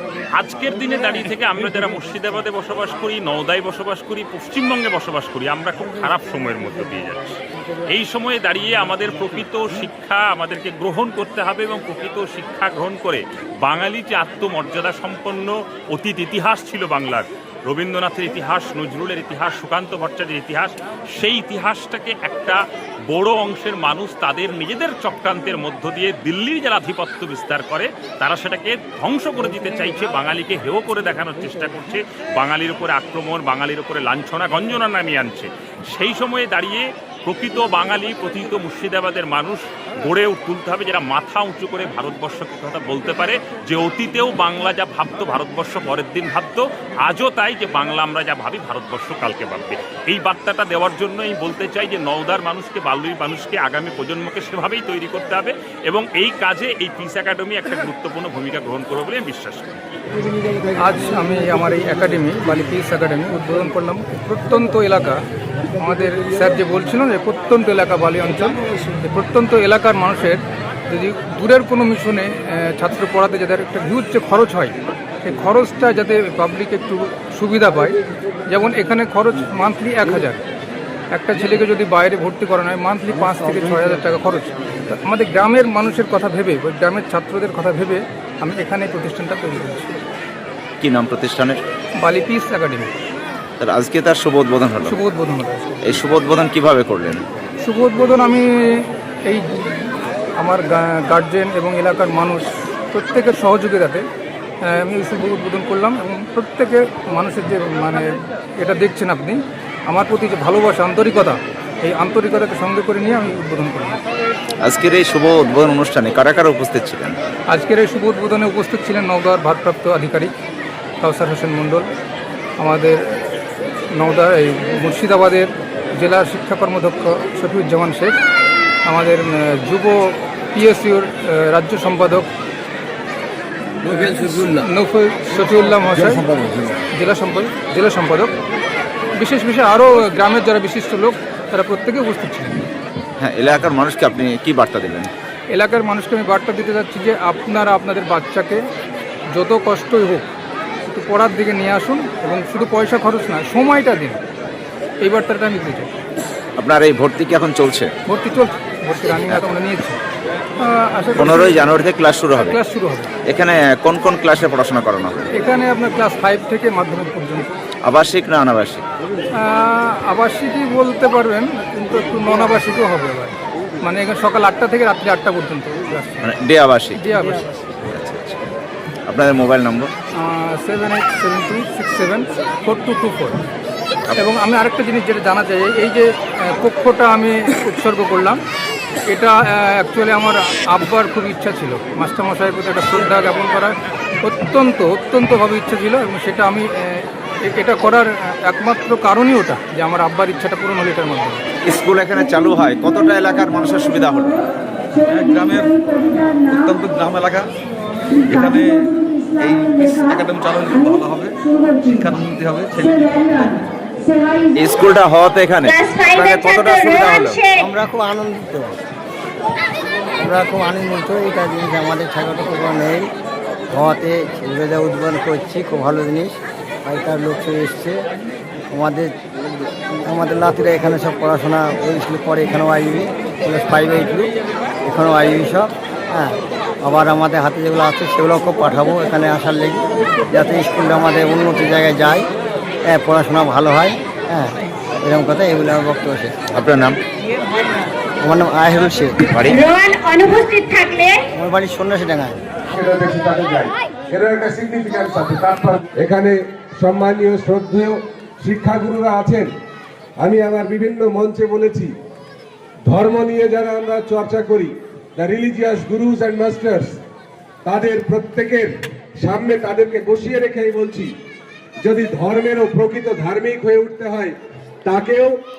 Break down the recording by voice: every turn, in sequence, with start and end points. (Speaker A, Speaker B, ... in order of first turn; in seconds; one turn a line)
Speaker A: 0.3-59.8
Speaker B: 60.7-65.2
Speaker B: 65.8-80.4
Speaker B: 81.1-90.0
Speaker C: 90.8-91.6
Speaker B: 92.0-92.9
Speaker C: 93.6-95.0
Speaker B: 94.8-96.0
Speaker C: 95.8-97.2
Speaker B: 97.6-104.0
Speaker B: 104.7-114.0
Speaker C: 114.6-117.2
Speaker B: 117.5-120.3
Speaker B: 121.0-121.9
Speaker B: 122.6-123.0
Speaker B: 123.9-128.2
Speaker B: 128.8-132.3
Speaker B: 133.9-136.2
Speaker D: 136.4-136.7
Speaker B: 136.9-138.3
Speaker B: 139.1-142.7
Speaker C: 143.2-145.1
Speaker B: 145.5-148.6
Speaker B: 149.3-150.2
Speaker B: 150.8-154.2
Speaker B: 155.0-155.9
Speaker C: 156.6-157.9
Speaker B: 158.1-160.0
Speaker C: 159.2-159.5
Speaker B: 160.6-161.8
Speaker C: 161.2-162.6
Speaker B: 162.5-163.1
Speaker C: 163.3-165.3
Speaker B: 165.3-167.5
Speaker C: 167.8-168.8
Speaker B: 169.4-176.3
Speaker C: 176.2-177.0
Speaker B: 176.9-177.6
Speaker C: 177.9-178.4
Speaker C: 179.1-179.9
Speaker B: 180.2-183.4
Speaker B: 184.2-188.4
Speaker B: 189.1-201.4
Speaker C: 201.6-204.5
Speaker D: 205.0-207.5
Speaker D: 208.2-213.4
Speaker C: 214.5-217.4
Speaker E: 215.6-217.6
Speaker F: 217.6-218.8
Speaker F: 220.2-223.1
Speaker F: 223.7-228.1
Speaker F: 228.7-229.2
Speaker F: 229.9-234.3
Speaker F: 234.8-242.3
Speaker F: 242.8-246.4
Speaker C: 246.5-247.0
Speaker F: 248.2-249.6
Speaker C: 249.2-249.7
Speaker E: 249.5-251.2
Speaker F: 251.3-252.4
Speaker G: 252.7-259.5
Speaker G: 260.2-261.9
Speaker G: 262.9-266.9
Speaker G: 267.6-271.1
Speaker G: 271.8-275.4